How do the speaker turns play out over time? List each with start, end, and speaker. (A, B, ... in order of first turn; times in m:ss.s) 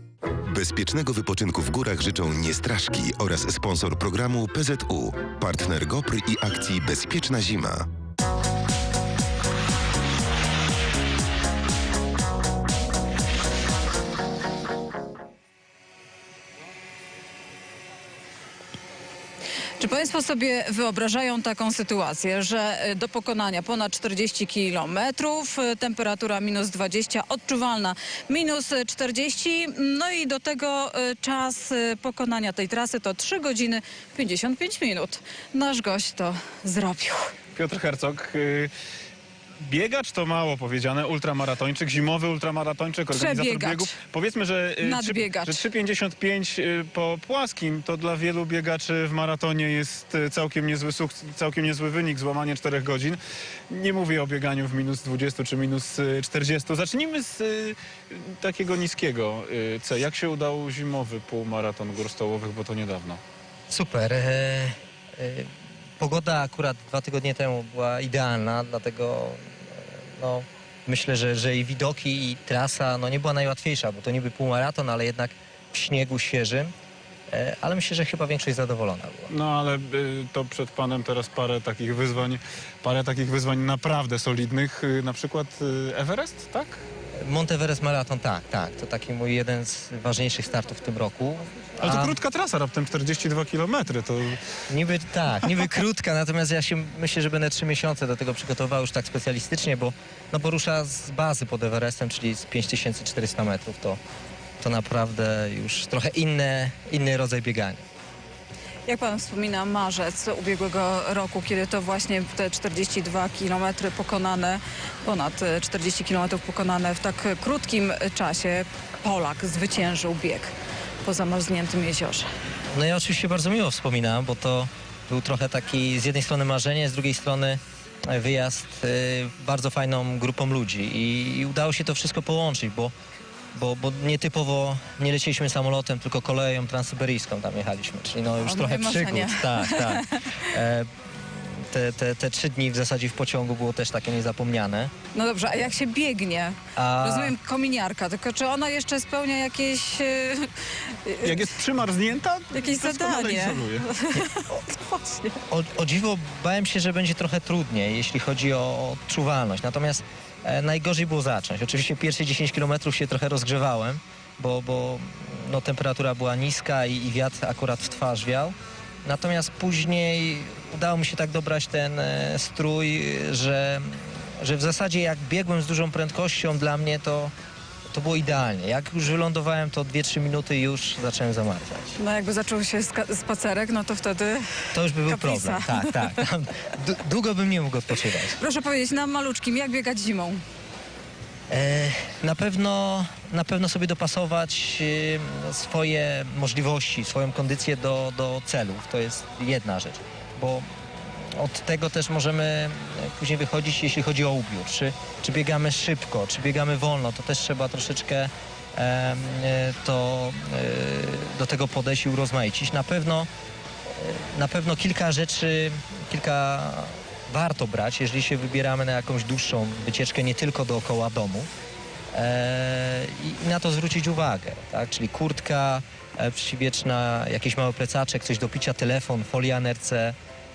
0:00.5-0:07.9 A
0:19.8-0:37.3 B
0:37.6-0:38.7 C
0:39.6-1:03.2 C
0:43.1-0:43.9 B
0:44.8-0:45.6 B
1:03.7-1:16.7 D
1:17.3-1:19.3 D
1:19.3-1:26.8 C
1:27.2-1:32.2 D
1:31.8-1:34.4 C
1:34.7-1:44.0 D
1:44.6-1:47.8 D
1:48.9-2:02.3 B
2:02.7-2:12.9 D
2:13.5-2:24.9 D
2:18.4-2:20.2 B
2:25.1-2:31.4 B
2:26.8-2:27.3 D
2:31.2-2:33.9 C
2:32.5-2:35.4 B
2:34.1-2:34.6 D
2:35.5-2:57.3 D
2:57.9-3:01.9 D
3:02.0-3:06.1 B
3:04.7-3:08.4 D
3:08.3-3:10.4 B
3:11.5-3:20.7 D
3:21.2-3:33.3 D
3:33.9-3:41.5 D
3:42.1-3:50.2 D